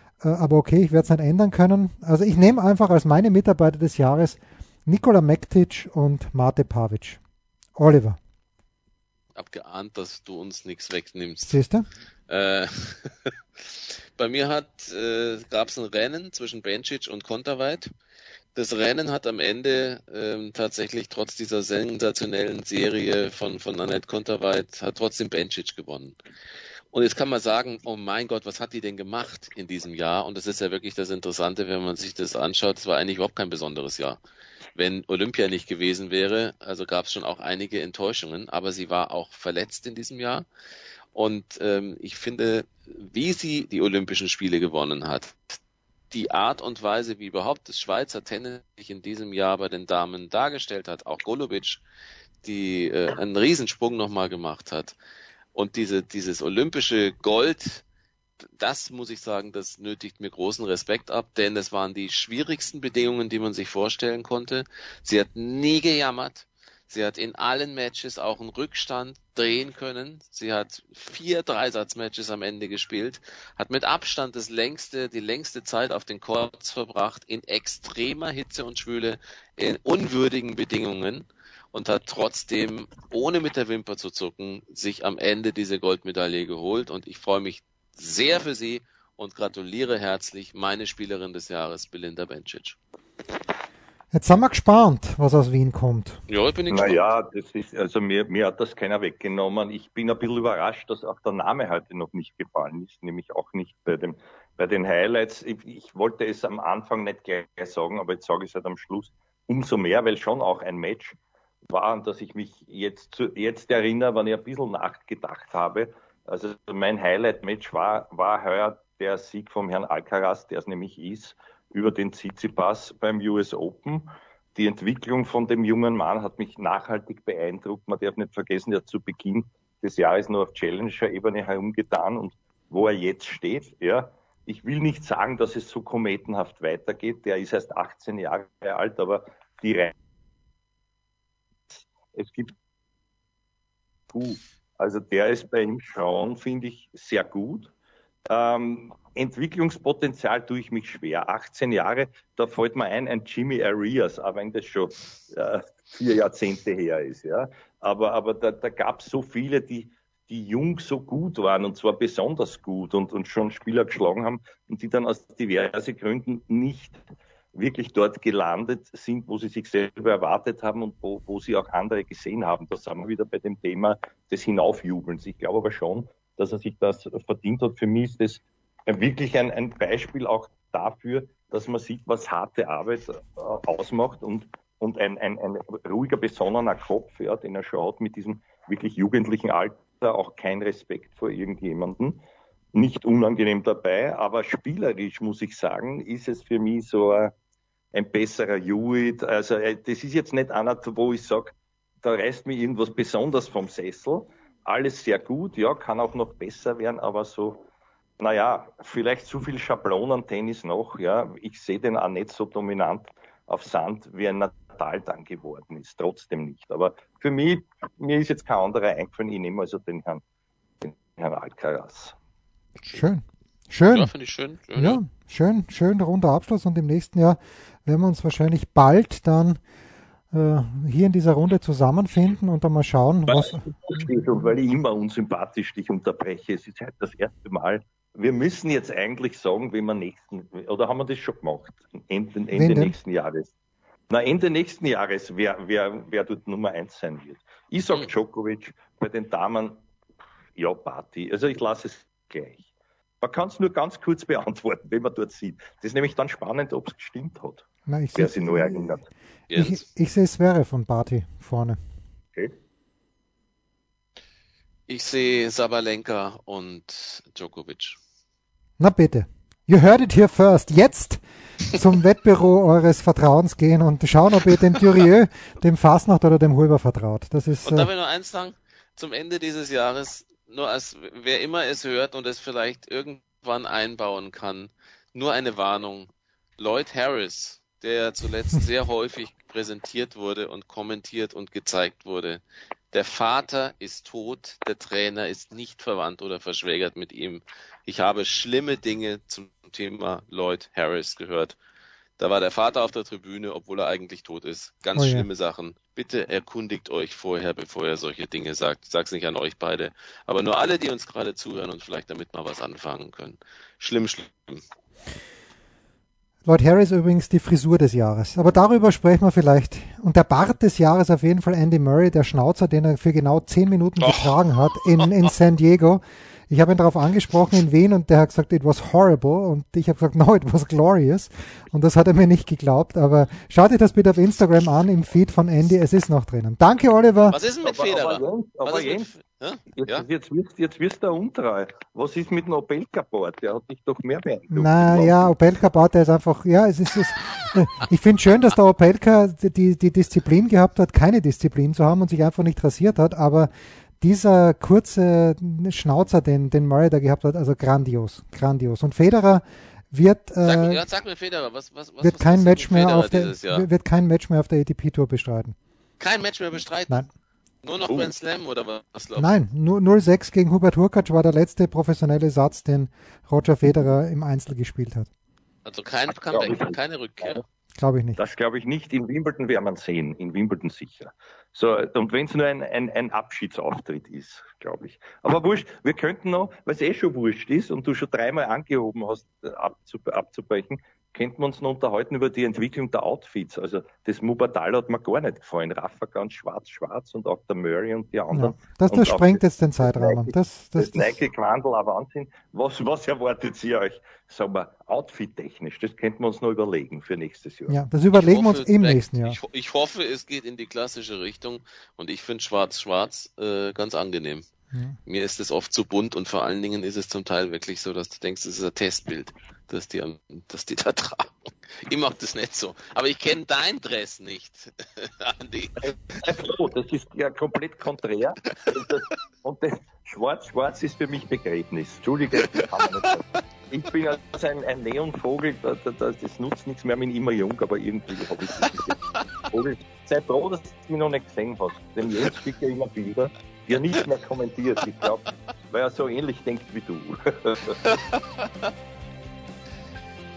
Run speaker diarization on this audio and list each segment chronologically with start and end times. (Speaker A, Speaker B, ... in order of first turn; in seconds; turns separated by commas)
Speaker A: 0.2-7.2, Speaker A: 7.8-8.2, Speaker B: 9.3-11.6, Speaker A: 11.4-11.9, Speaker B: 12.3-17.9, Speaker B: 18.5-26.2, Speaker B: 26.9-34.2, Speaker B: 34.7-40.5, Speaker B: 41.1-45.6, Speaker B: 46.1-51.8, Speaker B: 52.4-55.0, Speaker B: 55.5-57.8, Speaker B: 58.6-92.8, Speaker A: 94.1-96.2, Speaker B: 96.3-97.0, Speaker C: 96.7-111.2, Speaker C: 111.7-139.9, Speaker C: 141.7-142.5, Speaker C: 144.1-147.7, Speaker C: 148.3-167.0, Speaker C: 167.5-192.2, Speaker C: 192.7-197.3, Speaker C: 197.9-207.6, Speaker C: 208.2-220.2, Speaker C: 220.8-222.1, Speaker A: 222.9-224.1, Speaker B: 223.9-225.0, Speaker A: 224.8-229.6, Speaker A: 230.3-234.1, Speaker C: 233.3-243.5, Speaker A: 242.5-242.9, Speaker C: 244.1-249.8, Speaker C: 250.6-252.7, Speaker C: 253.2-259.1, Speaker A: 257.9-258.9, Speaker B: 259.5-259.8, Speaker A: 259.5-261.8, Speaker B: 264.9-268.0, Speaker A: 268.8-277.9, Speaker B: 277.6-301.6, Speaker B: 302.2-314.6, Speaker A: 304.9-305.3, Speaker A: 316.4-337.4, Speaker B: 337.3-340.1, Speaker C: 337.6-339.1, Speaker C: 339.7-345.3, Speaker A: 344.5-353.5, Speaker A: 354.0-360.8, Speaker B: 360.4-363.6, Speaker A: 362.0-365.6, Speaker B: 366.0-367.0, Speaker B: 367.6-369.3, Speaker A: 369.2-375.1, Speaker B: 375.6-377.4, Speaker C: 376.3-377.4, Speaker A: 377.8-378.2, Speaker C: 378.2-407.8, Speaker A: 398.3-401.1, Speaker A: 407.7-409.4, Speaker B: 408.1-414.5, Speaker B: 415.1-426.2, Speaker C: 426.2-447.9, Speaker B: 438.6-439.1, Speaker B: 447.9-448.7